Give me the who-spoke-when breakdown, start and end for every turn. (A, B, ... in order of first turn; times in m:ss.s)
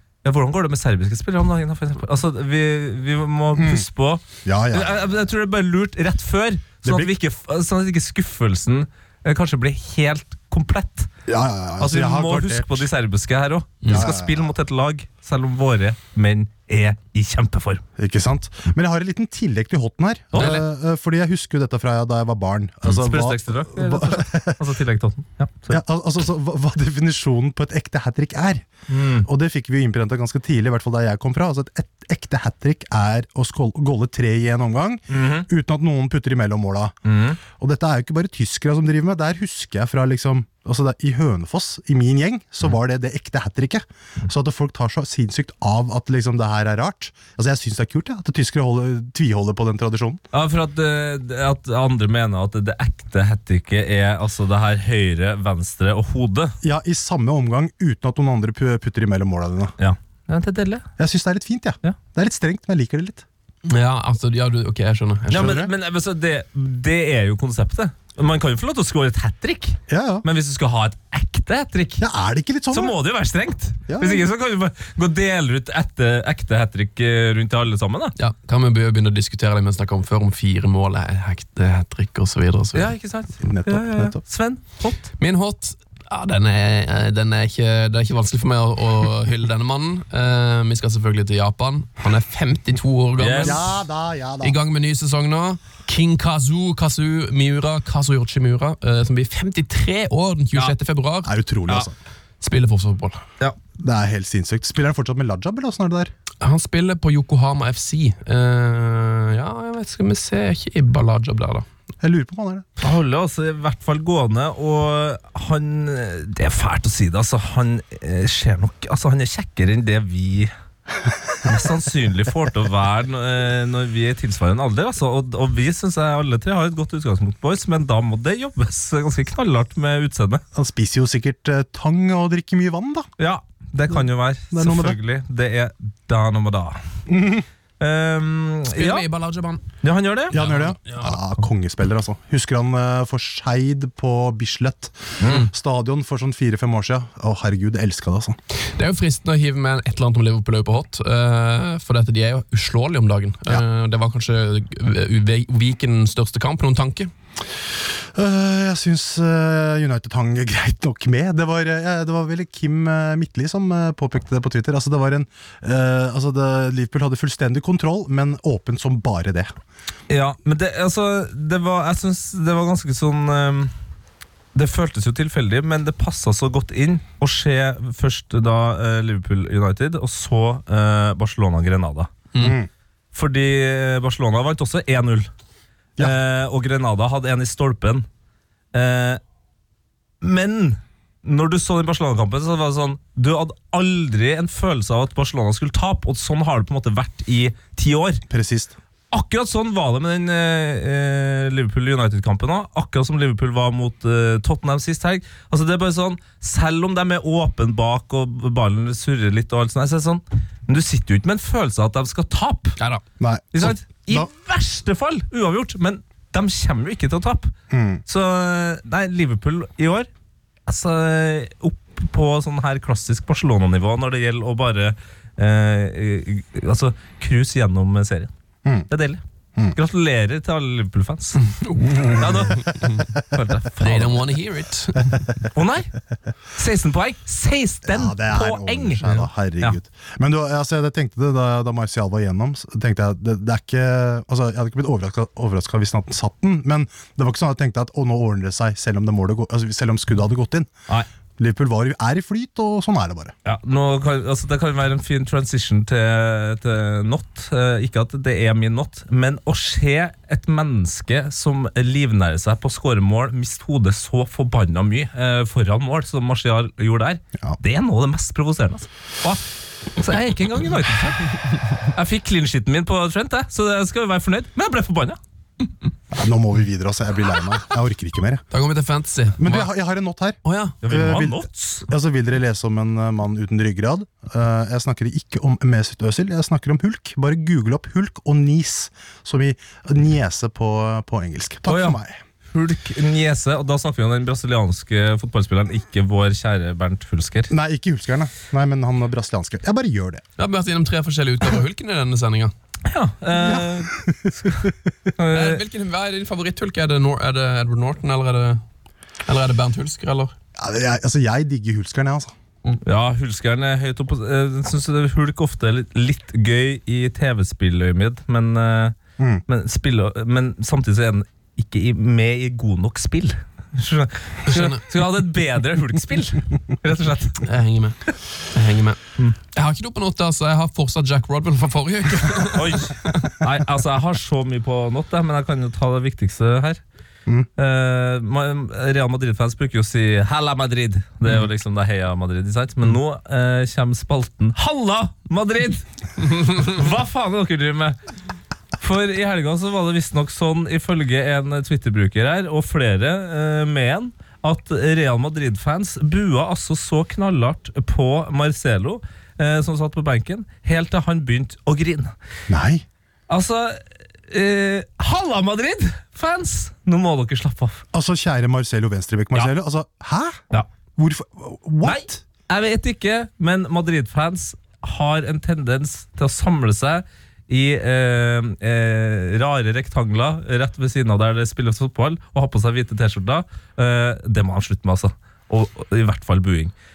0:00.2-0:11.1 A
0:03.5-0:03.8 B
0:04.4-0:05.0 B
0:06.8-0:07.1 B
0:11.3-0:12.9 B
0:11.8-0:17.8 A
0:13.8-0:14.1 C
0:13.9-0:14.5 B
0:18.0-0:24.7 B
0:20.3-0:20.6 A
0:22.8-0:25.8 A
0:25.7-0:28.7 B
0:28.9-0:29.3 A
0:29.2-0:36.9 B
0:35.1-0:35.5 A
0:37.0-0:37.4 A
0:37.6-0:50.2 B
0:50.3-0:56.6 A
0:56.6-0:59.7 B
0:59.8-1:00.8 A
1:01.0-1:03.2 B
1:03.7-1:05.6 C
1:05.3-1:12.0 A
1:05.3-1:05.7 B
1:09.9-1:10.2 B
1:12.0-1:13.0 B
1:12.7-1:18.1 A
1:13.9-1:14.3 B
1:18.2-1:22.9 C
1:22.7-1:25.1 A
1:23.4-1:24.2 B
1:25.2-1:33.8 C
1:33.2-1:33.6 A
1:33.4-1:34.6 B
1:34.4-1:41.3 C
1:41.2-1:41.9 B
1:42.4-1:43.2 C
1:43.8-1:46.1 B
1:46.4-1:51.6 C
1:52.0-1:52.6 B
1:52.8-2:00.5 A
2:01.4-2:10.4 A
2:10.5-2:13.1 B
2:13.2-2:16.8 A
2:14.5-2:15.0 B
2:17.1-2:17.4 B
2:17.8-2:19.0 A
2:18.7-2:19.6 C
2:19.8-2:20.4 A
2:20.3-2:28.4 B
2:20.3-2:21.2 C
2:25.2-2:25.5 A
2:28.8-2:37.1 C
2:38.1-2:49.5 B
2:50.1-2:53.7 A
2:54.5-3:02.1 A
3:02.3-3:02.6 C
3:02.4-3:02.7 B
3:03.1-3:05.3 A
3:06.0-3:08.0 A
3:08.7-3:09.2 A
3:10.2-3:18.2 A
3:18.3-3:18.7 B
3:19.1-3:32.8 A
3:33.2-3:34.3 B
3:33.5-3:37.5 A
3:37.7-3:38.0 B
3:38.0-3:40.1 A
3:40.7-3:48.3 A
3:48.9-3:49.2 A
3:49.7-3:51.4 A
3:51.4-3:52.9 C
3:52.2-3:54.3 A
3:53.8-3:55.3 C
3:55.5-3:55.9 A
3:56.5-3:59.8 A
3:57.8-4:10.7 B
4:11.4-4:13.3 B
4:13.4-4:29.4 A
4:30.0-4:35.2 A
4:36.1-4:38.4 B
4:38.5-4:39.7 C
4:39.4-4:52.2 B
4:40.4-4:40.8 C
4:40.8-4:41.8 A
4:51.6-4:52.0 A
4:52.5-4:57.5 A
4:57.5-5:00.2 B
5:00.4-5:02.5 C
5:02.9-5:04.6 A
5:03.3-5:04.7 B
5:05.2-5:05.6 A
5:05.3-5:08.6 C
5:09.2-5:10.3 C
5:10.6-5:12.3 B
5:12.8-5:18.9 A
5:19.5-5:27.4 A
5:24.5-5:24.8 C
5:27.4-5:28.0 C
5:28.5-5:29.0 C
5:29.5-5:33.4 C
5:32.5-5:36.8 A
5:37.6-5:48.0 A
5:48.8-6:02.1 A
6:02.5-6:02.8 B
6:03.3-6:03.8 A
6:04.3-6:07.8 A
6:07.9-6:10.4 B
6:11.0-6:12.2 B
6:11.8-6:26.7 A